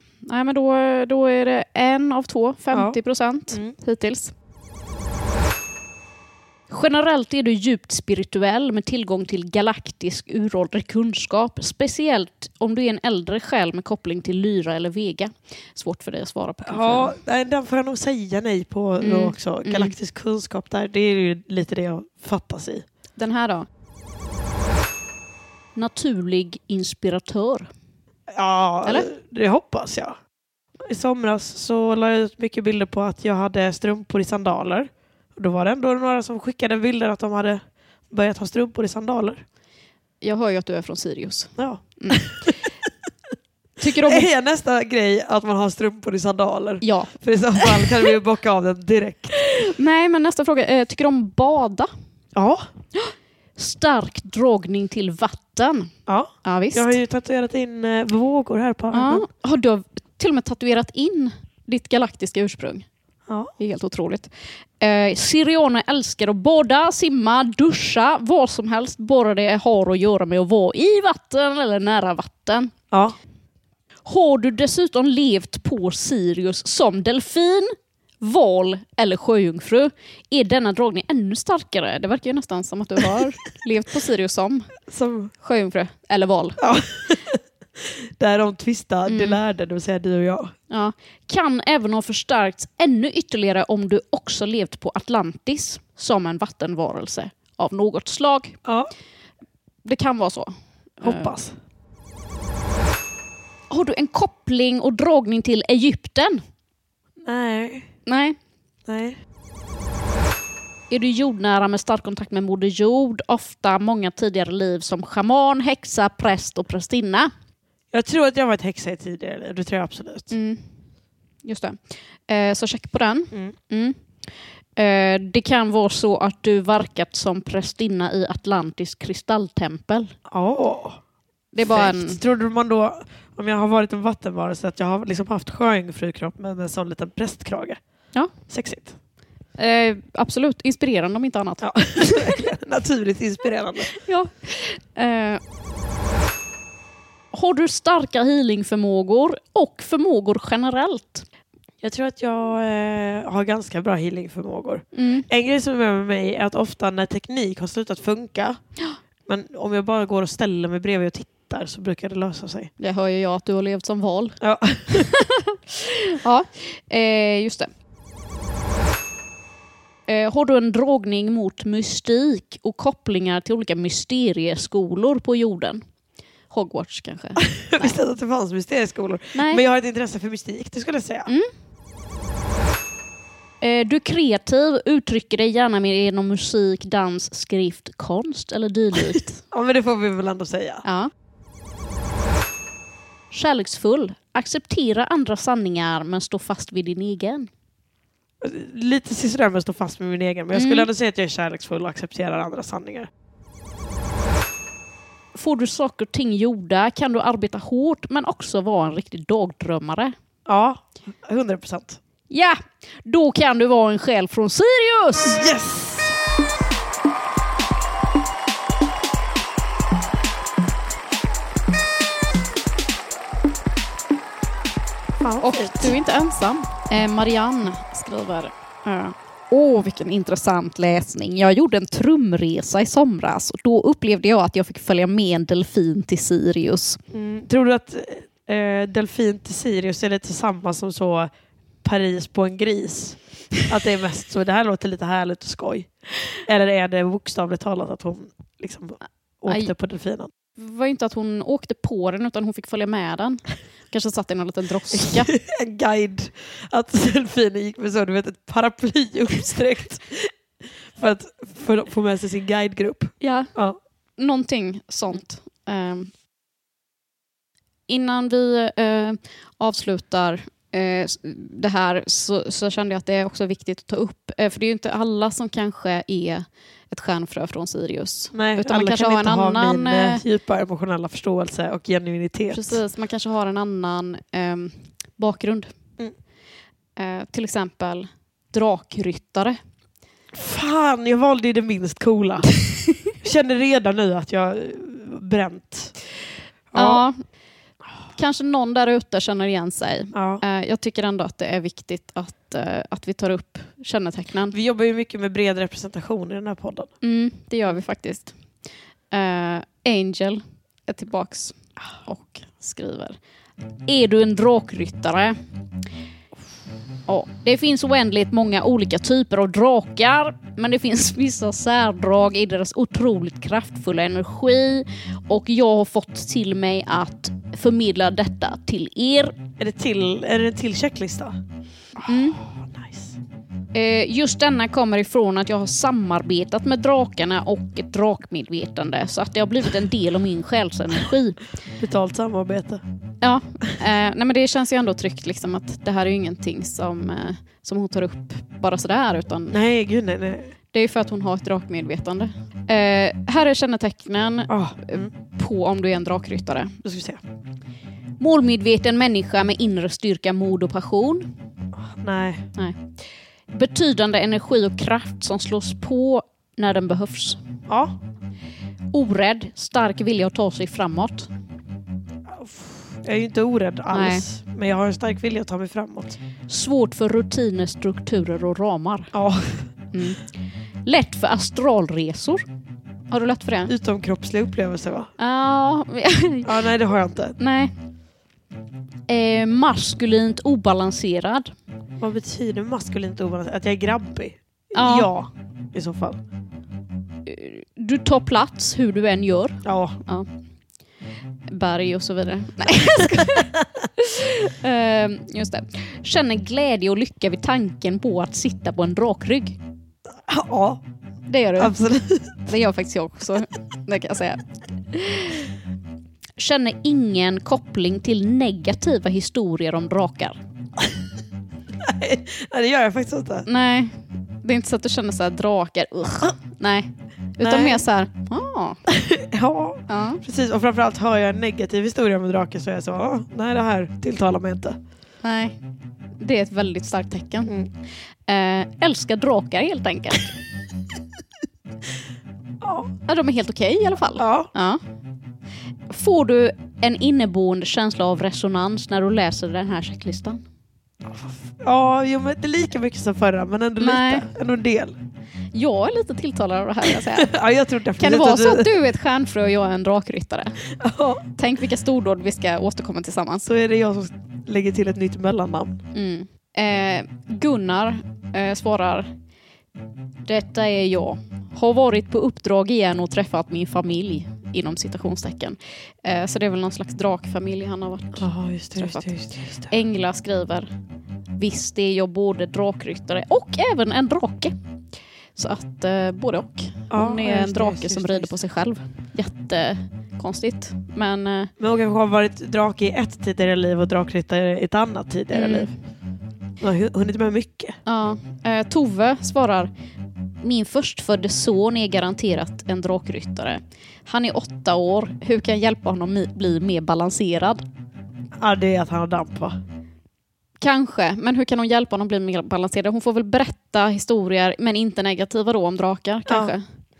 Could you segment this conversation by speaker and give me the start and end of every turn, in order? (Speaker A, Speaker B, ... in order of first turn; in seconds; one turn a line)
Speaker A: 0.2-4.3
Speaker B: 2.7-3.0
Speaker A: 6.7-17.1
Speaker B: 16.6-22.8
Speaker A: 19.0-19.9
Speaker A: 23.2-23.7
Speaker A: 25.7-27.7
Speaker B: 28.3-30.2
Speaker B: 30.8-39.4
Speaker A: 40.2-42.3
Speaker B: 41.6-42.7
Speaker A: 43.8-44.3
Speaker B: 44.0-49.6
Speaker A: 46.8-48.0
Speaker A: 49.5-51.9
Speaker B: 52.3-52.7
Speaker A: 52.9-55.9
Speaker B: 56.1-59.2
Speaker A: 56.4-56.9
Speaker A: 58.9-62.8
Speaker A: 63.6-72.7
Speaker A: 74.0-84.7
Speaker B: 84.9-85.3
Speaker A: 85.4-86.6
Speaker B: 86.6-90.5
Speaker A: 89.1-89.4
Speaker A: 90.7-98.6
Speaker B: 98.7-98.9
Speaker A: 99.8-101.3
Speaker B: 101.0-101.5
Speaker A: 103.7-106.4
Speaker B: 107.2-107.9
Speaker A: 108.1-108.4
Speaker B: 108.8-109.2
Speaker A: 110.9-117.3
Speaker B: 117.9-120.3
Speaker A: 120.3-120.6
Speaker A: 121.4-124.0
Speaker A: 124.8-130.1
Speaker B: 130.3-131.0
Speaker A: 131.5-132.2
Speaker B: 131.6-137.8
Speaker B: 138.5-138.9
Speaker A: 139.6-142.4
Speaker B: 141.6-143.9
Speaker A: 144.0-145.4
Speaker A: 147.3-151.2
Speaker B: 151.8-158.6
Speaker A: 154.9-155.3
Speaker B: 159.3-162.7
Speaker A: 162.8-164.4
Speaker B: 164.4-165.1
Speaker A: 164.9-167.7
Speaker A: 170.1-175.8
Speaker A: 176.5-178.0
Speaker B: 177.6-181.3
Speaker A: 179.3-179.6
Speaker A: 183.6-189.4
Speaker B: 189.5-190.8
Speaker A: 190.8-191.1
Speaker A: 193.3-197.5
Speaker B: 198.4-203.1
Speaker A: 200.5-200.9
Speaker A: 205.3-210.1
Speaker B: 210.4-212.0
Speaker A: 212.3-215.4
Speaker B: 215.2-216.2
Speaker B: 225.2-226.0
Speaker A: 225.4-237.0
Speaker B: 237.1-241.3
Speaker B: 241.8-245.9
Speaker B: 246.4-250.3
Speaker A: 250.6-255.3
Speaker B: 254.9-260.3
Speaker B: 260.9-263.8
Speaker A: 263.2-263.5
Speaker A: 264.2-266.1
Speaker A: 267.9-280.2
Speaker B: 278.3-282.8
Speaker A: 282.5-285.7
Speaker A: 287.0-289.6
Speaker B: 290.3-292.5
Speaker B: 293.2-295.9
Speaker B: 296.7-297.0
Speaker A: 296.7-297.2
Speaker A: 298.1-304.6
Speaker B: 300.1-300.4
Speaker B: 304.5-306.9
Speaker A: 307.0-308.3
Speaker A: 309.1-313.2
Speaker A: 313.9-315.4
Speaker A: 317.1-329.4
Speaker B: 329.6-331.4
Speaker B: 331.9-333.1
Speaker A: 332.1-332.4
Speaker A: 333.7-341.4
Speaker B: 341.8-342.8
Speaker A: 343.2-349.6
Speaker B: 349.5-350.5
Speaker A: 350.7-356.7
Speaker B: 354.5-355.1
Speaker B: 356.8-357.2
Speaker A: 358.2-361.3
Speaker B: 361.8-362.4
Speaker A: 363.5-367.4
Speaker B: 367.7-368.0
Speaker A: 368.9-371.3
Speaker B: 372.3-376.2
Speaker A: 373.9-374.2
Speaker A: 376.5-379.1
Speaker B: 379.1-379.6
Speaker A: 379.9-380.3
Speaker A: 380.8-382.4
Speaker A: 383.1-383.7
Speaker B: 383.7-385.1
Speaker A: 385.2-386.6
Speaker B: 386.4-387.4
Speaker A: 387.4-387.7
Speaker A: 389.1-391.5
Speaker B: 392.0-396.2
Speaker A: 394.7-395.1
Speaker A: 397.2-400.3
Speaker B: 399.6-400.0
Speaker A: 401.5-409.6
Speaker B: 402.8-403.6
Speaker B: 410.3-410.8
Speaker A: 411.3-411.8
Speaker B: 411.6-412.5
Speaker A: 412.4-414.4
Speaker A: 414.9-415.5
Speaker A: 416.4-420.4
Speaker B: 421.8-423.5
Speaker A: 423.4-428.8
Speaker B: 427.4-427.8
Speaker B: 428.9-434.8
Speaker A: 429.9-430.2
Speaker A: 435.2-435.6
Speaker A: 436.2-437.5
Speaker A: 438.3-440.3
Speaker B: 442.6-442.9
Speaker A: 443.1-444.8
Speaker B: 444.2-444.5
Speaker A: 445.9-450.4
Speaker B: 451.0-455.0
Speaker A: 453.8-454.2
Speaker A: 455.5-457.3
Speaker B: 456.9-458.7
Speaker A: 458.0-460.6
Speaker B: 460.8-461.2
Speaker A: 461.4-463.5
Speaker B: 463.4-465.8
Speaker A: 465.9-469.1
Speaker A: 470.2-479.1
Speaker B: 478.2-479.7
Speaker A: 479.7-480.7
Speaker A: 481.4-484.5
Speaker A: 485.4-491.5
Speaker B: 486.9-488.3
Speaker B: 491.6-495.7
Speaker A: 495.3-495.7
Speaker B: 496.6-497.8
Speaker A: 497.9-499.7
Speaker A: 500.4-507.6
Speaker B: 508.4-509.6
Speaker A: 510.6-516.6
Speaker B: 516.3-516.5